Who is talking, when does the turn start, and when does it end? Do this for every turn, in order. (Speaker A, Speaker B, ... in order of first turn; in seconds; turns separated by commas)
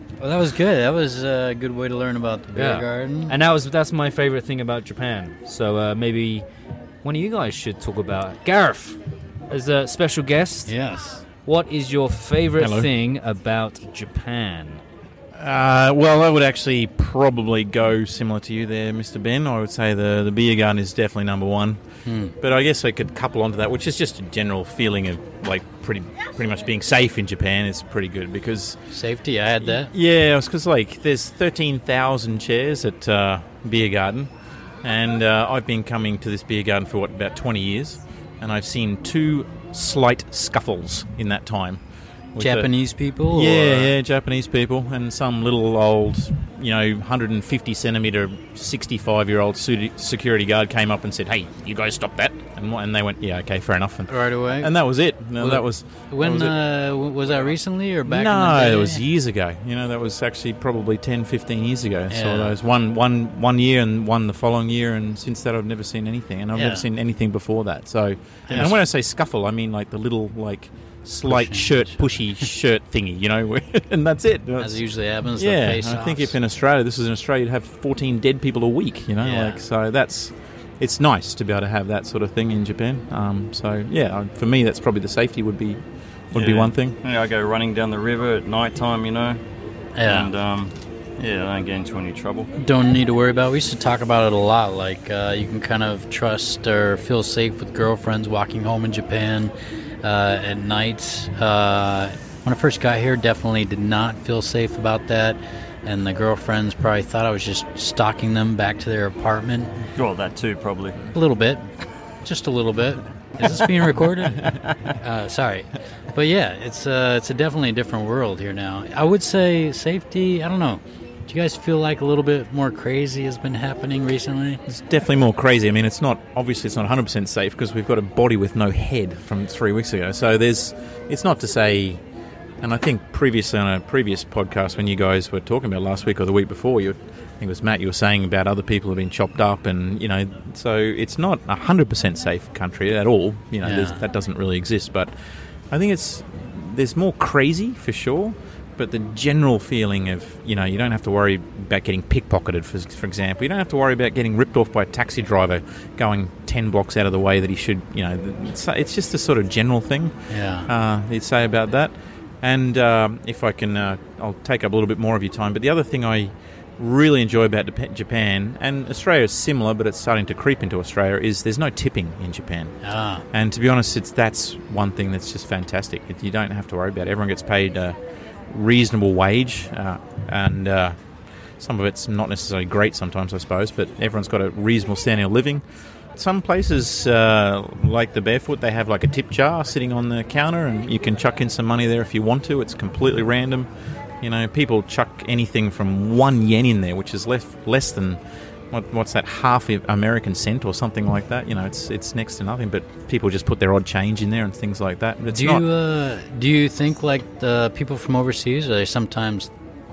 Speaker A: 0.2-3.4, Speaker B: 2.5-6.4, Speaker B: 7.0-9.0, Speaker B: 9.5-10.7, Speaker A: 10.7-11.2, Speaker B: 11.4-14.8, Speaker C: 12.6-12.9, Speaker C: 15.3-21.8, Speaker A: 22.1-22.4, Speaker C: 22.4-28.8, Speaker A: 28.9-29.9, Speaker C: 29.7-34.3, Speaker C: 34.8-41.8, Speaker C: 42.3-42.7, Speaker A: 42.4-43.9, Speaker C: 43.3-56.6, Speaker A: 54.1-54.7, Speaker A: 55.4-59.0, Speaker C: 58.0-74.8, Speaker A: 62.1-62.5, Speaker A: 66.5-66.9, Speaker A: 68.5-68.8, Speaker A: 71.2-72.5, Speaker A: 74.6-76.3, Speaker C: 75.3-87.0, Speaker A: 79.2-79.6, Speaker D: 86.3-89.4, Speaker A: 89.9-90.3, Speaker D: 90.0-92.5, Speaker A: 92.6-109.8, Speaker D: 109.9-111.0, Speaker A: 111.1-111.6, Speaker A: 112.2-124.6, Speaker C: 124.7-132.0, Speaker C: 132.6-145.1, Speaker A: 143.6-144.0, Speaker C: 145.7-160.1, Speaker A: 160.3-160.7, Speaker C: 160.7-172.8, Speaker A: 172.8-173.2, Speaker C: 173.3-178.0, Speaker C: 178.5-181.0, Speaker C: 181.6-193.7, Speaker C: 194.2-198.2, Speaker C: 198.7-205.7, Speaker A: 205.3-209.5